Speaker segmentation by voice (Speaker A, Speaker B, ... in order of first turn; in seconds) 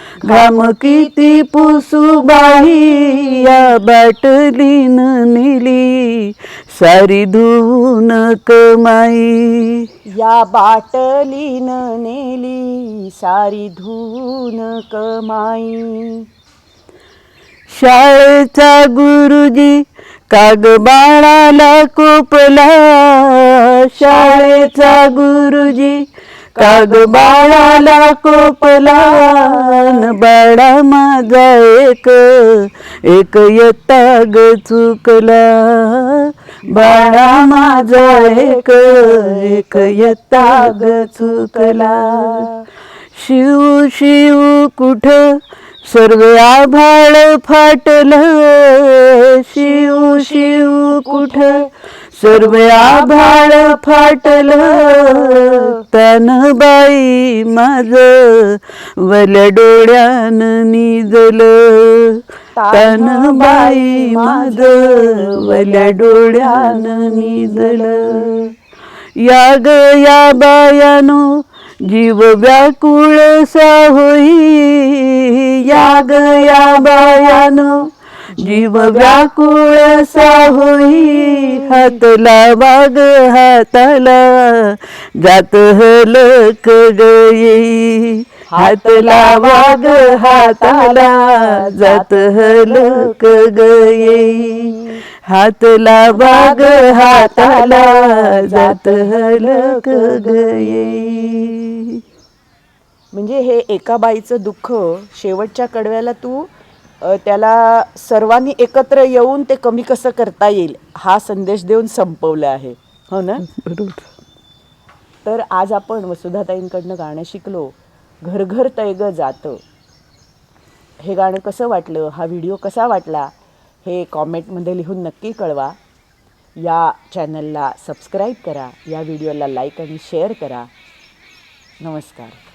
Speaker A: 0.2-1.5, 2.6-3.5, 10.1-16.2, 24.0-25.1, 26.6-30.1, 36.6-42.6, 49.6-51.6, 52.2-55.8, 62.5-68.5, 78.3-79.2, 80.0-80.3, 81.0-82.0, 88.5-95.0, 96.1-101.5, 103.1-106.5, 107.0-113.5, 115.2-119.6, 121.0-125.8, 126.6-130.7, 131.8-132.4
Speaker B: 0.2-9.9, 17.7-26.0, 26.6-42.5, 43.1-51.6, 52.2-68.5, 69.2-71.2, 71.8-94.7, 95.2-102.0, 113.4-114.0